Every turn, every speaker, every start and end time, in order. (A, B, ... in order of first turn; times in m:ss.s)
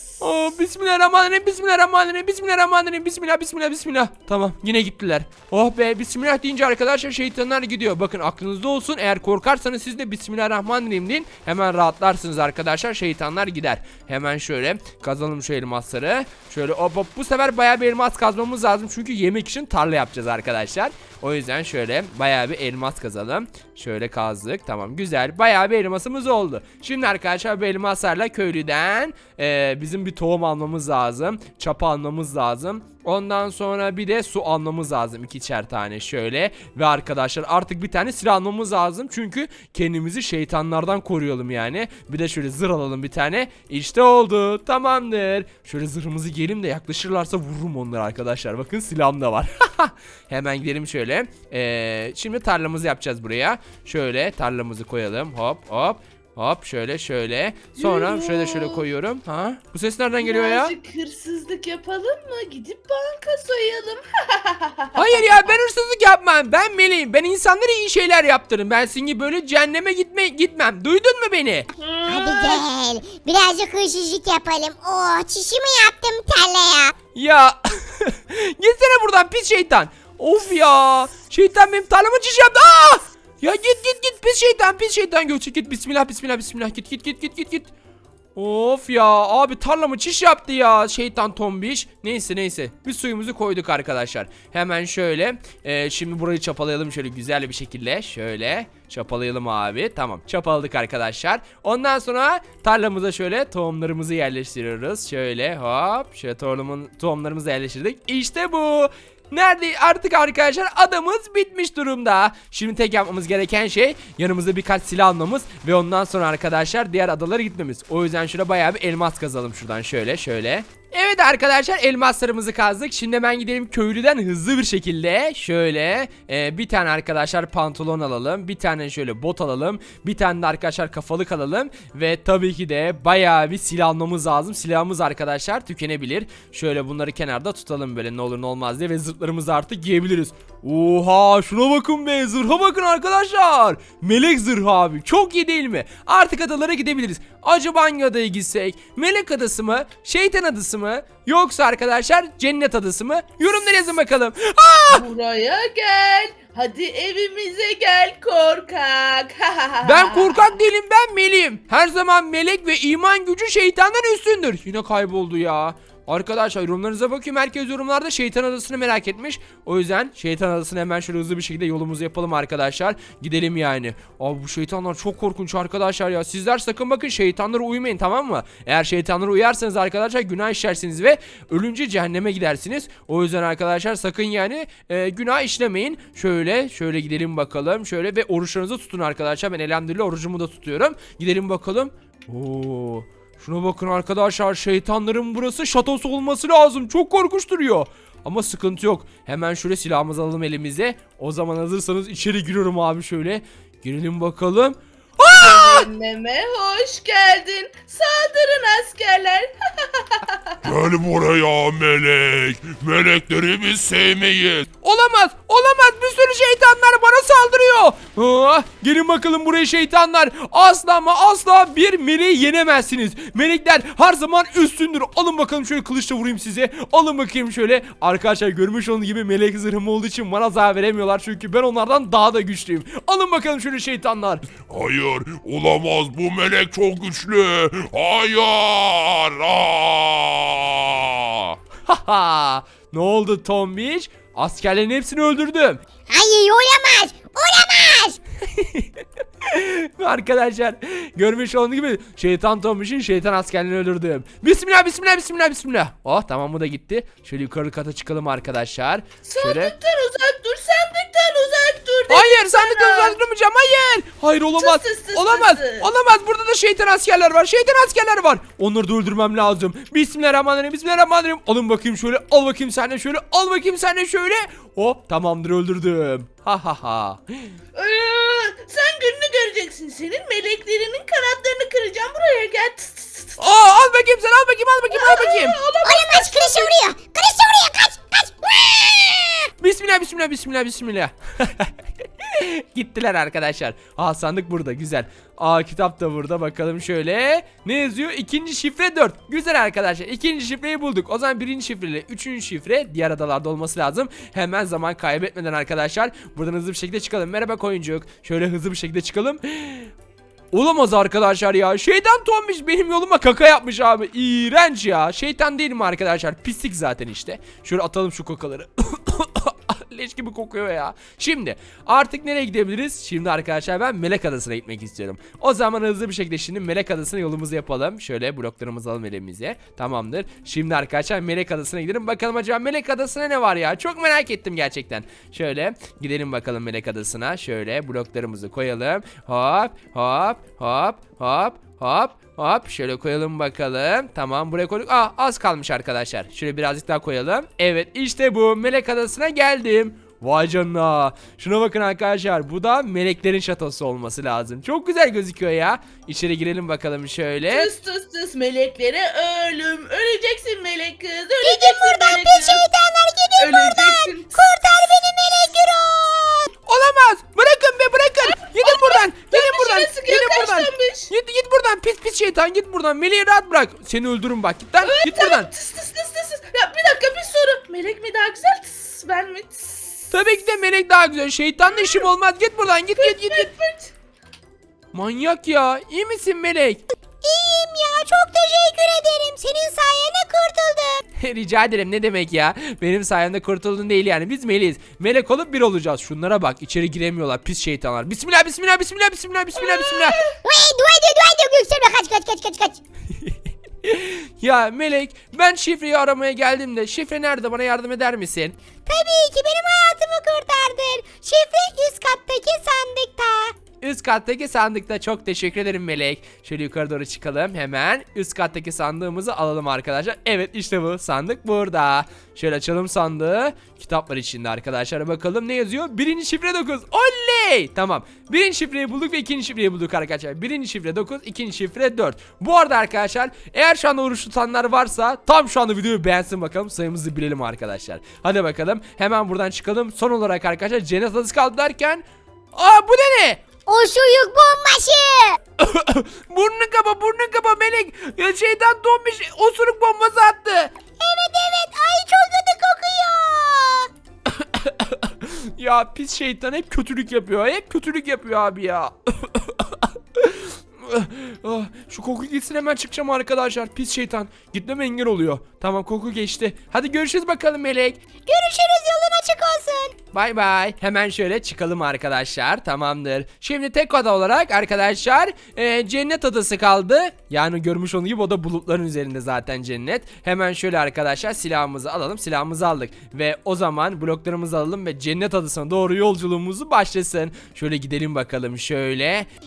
0:00.2-1:00.7 A
0:57.8-0:58.8 B
1:00.2-1:05.5 B
1:05.0-1:11.7 A
1:11.8-1:12.6 B
1:12.1-1:17.0 C
1:17.2-1:27.7 A
1:28.4-2:35.0 A
2:34.9-2:40.5 B
2:39.8-3:25.9 A
3:25.3-3:30.4 B
3:30.6-3:34.7 D
3:34.8-3:54.5 A
3:54.7-4:01.6 D
4:01.9-4:05.8 A
4:06.1-4:08.2 C
4:08.5-4:08.9 A
4:09.5-4:19.7 A
4:19.3-4:23.2 B
4:22.1-4:37.5 A
4:24.6-4:25.9 B
4:37.8-4:43.6 B
4:43.4-4:45.6 A
4:44.9-4:46.8 B
4:45.8-4:49.4 C
4:49.6-4:51.7 A
4:52.2-5:09.9 A
5:10.5-5:57.7 A
5:57.5-6:02.7 B
6:01.4-6:06.5 C
6:03.4-6:04.4 B
6:06.7-6:15.5 A
6:08.4-6:11.1 B
6:14.8-6:19.7 B
6:20.1-6:23.5 A
6:21.6-6:22.1 B
6:23.0-6:23.9 B
6:24.9-6:26.8 A
6:27.2-6:31.0 C
6:31.2-6:40.2 A
6:39.6-6:40.3 B
6:40.4-6:42.8 C
6:43.2-6:48.6 A
6:48.9-6:53.6 C
6:53.8-7:23.4 A
7:23.7-7:25.4 C
7:25.6-7:30.7 A
7:31.0-7:33.9 C
7:34.4-7:48.0 A
7:48.3-7:50.0 C
7:50.1-8:09.3 A